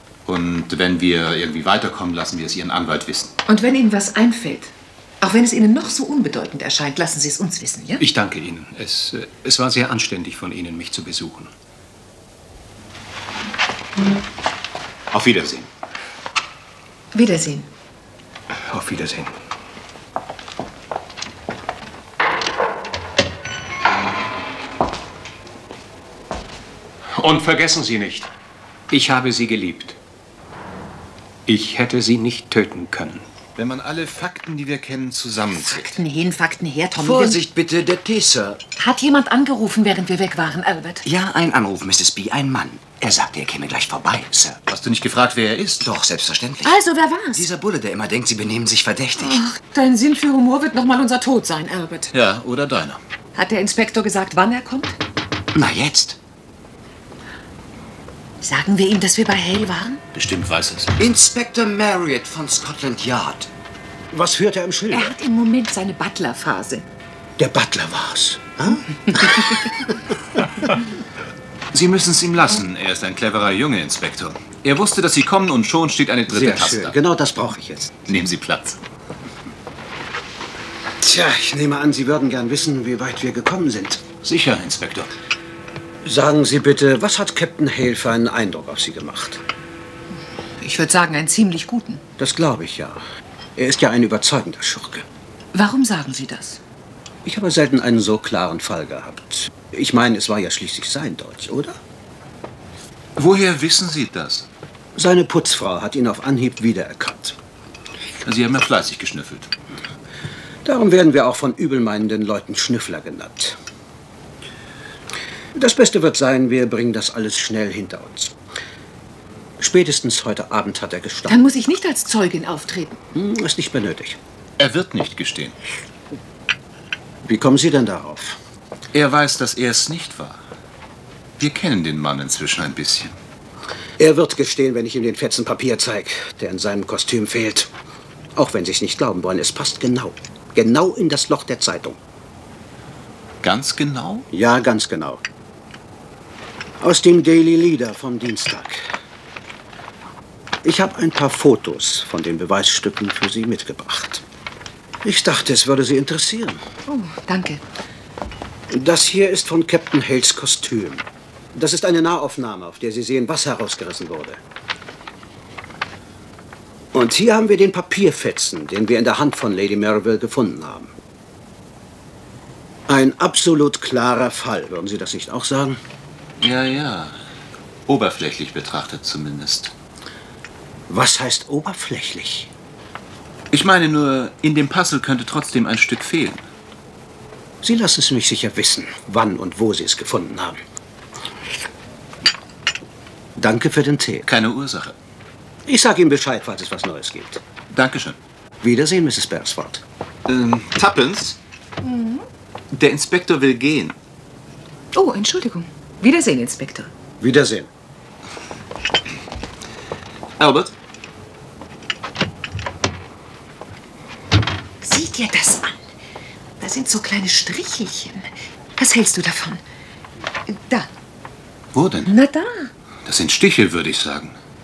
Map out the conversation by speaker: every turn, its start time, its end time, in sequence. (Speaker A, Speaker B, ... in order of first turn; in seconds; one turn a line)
Speaker A: 0.2-3.3
Speaker B: 3.5-8.0
Speaker C: 8.0-11.5
Speaker A: 15.1-15.7
Speaker B: 17.1-17.7
Speaker C: 18.5-19.3
Speaker C: 27.1-28.3
Speaker C: 28.9-30.0
Speaker C: 31.4-33.2
Speaker A: 33.5-35.9
Speaker B: 35.5-37.4
Speaker D: 37.0-38.6
Speaker B: 38.8-41.0
Speaker D: 41.0-44.6
Speaker A: 44.7-45.9
Speaker D: 45.8-46.8
Speaker B: 46.6-47.4
Speaker D: 47.3-49.4
Speaker B: 49.2-52.1
Speaker A: 52.1-53.0
Speaker B: 53.3-55.0
Speaker D: 55.5-56.2
Speaker B: 58.4-60.0
Speaker A: 60.1-61.0
Speaker D: 61.0-63.5
Speaker E: 64.1-65.1
Speaker B: 64.9-66.8
Speaker E: 67.4-69.8
Speaker A: 71.7-77.0
Speaker E: 76.3-78.0
Speaker A: 78.0-78.8
Speaker E: 81.0-84.0
Speaker A: 84.2-85.1
Speaker E: 86.0-89.4
Speaker B: 90.6-92.0
Speaker E: 92.2-93.0
Speaker E: 93.5-95.0
Speaker B: 95.5-96.6
Speaker E: 97.2-101.8
Speaker A: 103.2-104.5
Speaker E: 105.0-107.4
Speaker A: 108.2-109.5
Speaker E: 110.6-113.6
Speaker E: 115.5-118.3
Speaker E: 119.6-121.4
Speaker B: 121.3-123.0
Speaker E: 123.1-124.2
Speaker A: 124.6-125.6
Speaker E: 127.2-128.4
Speaker A: 128.9-130.4
Speaker A: 131.4-133.2
Speaker E: 134.0-137.7
Speaker E: 138.3-142.0
Speaker A: 143.4-144.3
Speaker E: 144.3-145.2
Speaker E: 146.8-148.9
Speaker E: 150.6-154.2
Speaker E: 155.0-156.6
Speaker B: 156.9-157.6
Speaker E: 158.7-164.4
Speaker E: 166.9-170.9
Speaker E: 172.9-175.8
Speaker A: 176.4-177.2
Speaker A: 177.9-179.7
Speaker E: 180.9-182.5
Speaker A: 183.5-186.4
Speaker E: 187.6-190.6
Speaker E: 193.4-194.3
Speaker A: 194.3-194.9
Speaker E: 195.7-197.4
Speaker A: 197.7-198.2
Speaker E: 198.6-199.8
Speaker A: 200.3-201.4
Speaker B: 201.8-202.2
Speaker A: 202.7-203.9
Speaker B: 204.9-206.9
Speaker E: 207.2-207.7
Speaker A: 210.4-210.7
Speaker B: 214.8-215.9
Speaker B: 216.6-219.6
Speaker B: 220.5-220.9
Speaker A: 221.7-222.1
Speaker B: 222.1-222.7
Speaker A: 223.0-224.3